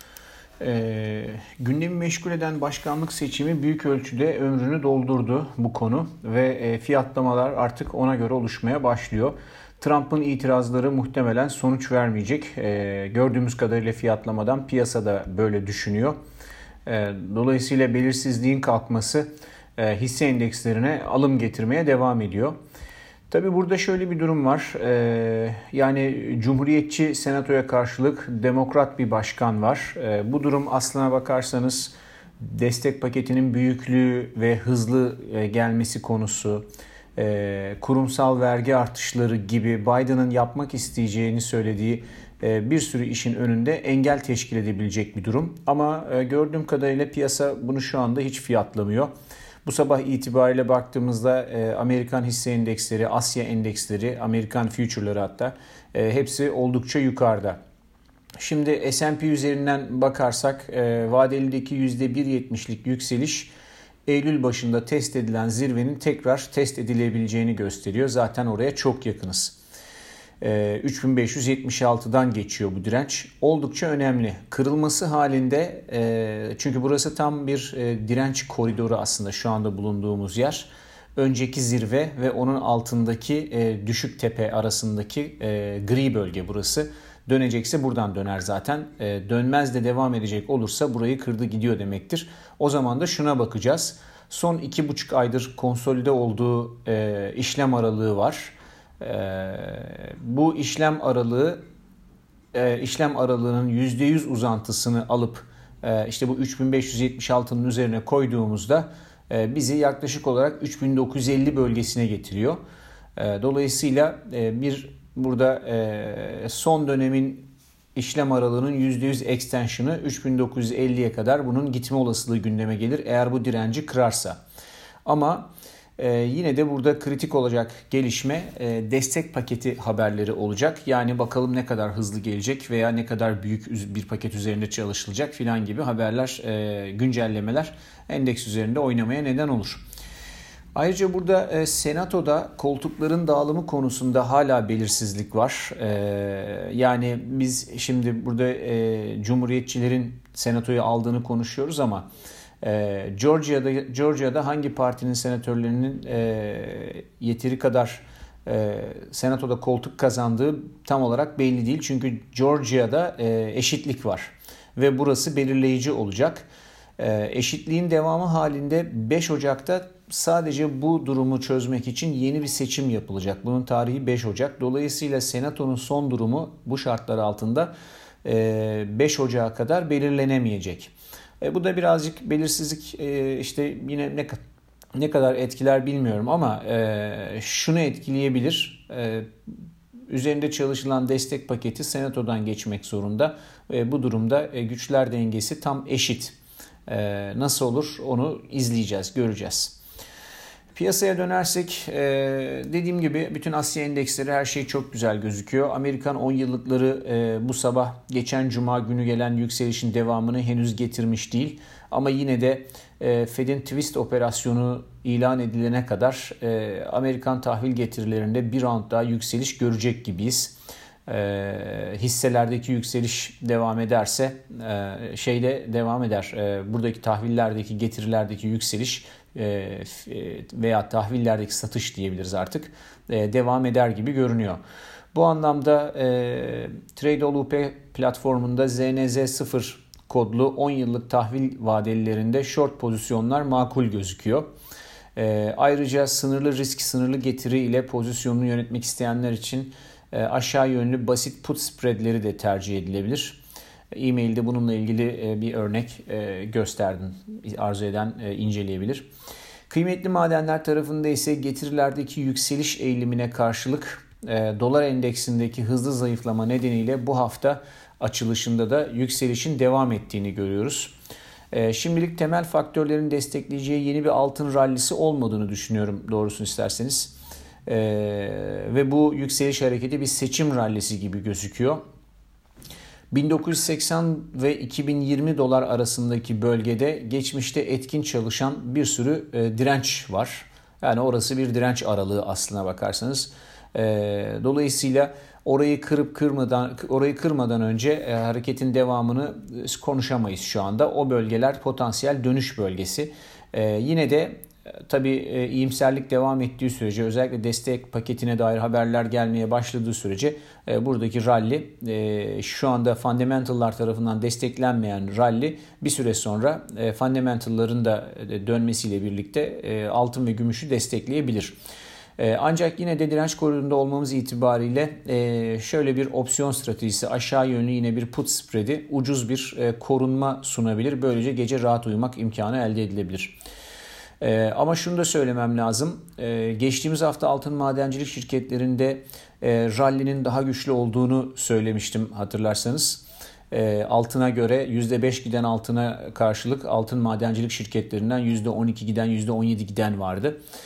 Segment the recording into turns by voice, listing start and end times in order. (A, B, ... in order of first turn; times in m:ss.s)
0:00.6-0:16.2 A
0:16.9-0:22.6 A
0:23.3-0:36.6 A
0:37.2-0:49.1 A
0:49.6-0:57.6 A
0:58.4-1:03.5 A
1:04.1-1:09.6 A
1:10.4-1:41.6 A
1:42.5-1:52.6 A
1:53.2-2:04.4 A
2:05.0-2:19.8 A
2:20.8-2:32.1 A
2:32.6-2:46.4 A
2:47.0-2:57.7 A
2:58.2-3:04.4 A
3:05.0-3:09.3 A
3:10.1-3:16.4 A
3:16.9-3:19.8 A
3:20.8-3:40.6 A
3:41.1-3:54.6 A
3:55.1-4:04.5 A
4:05.2-4:13.4 A
4:13.9-4:19.1 A
4:19.7-4:31.0 A
4:31.5-4:37.1 A
4:37.7-4:41.8 A
4:43.1-5:21.6 A
5:22.2-5:33.4 A
5:34.2-5:50.4 A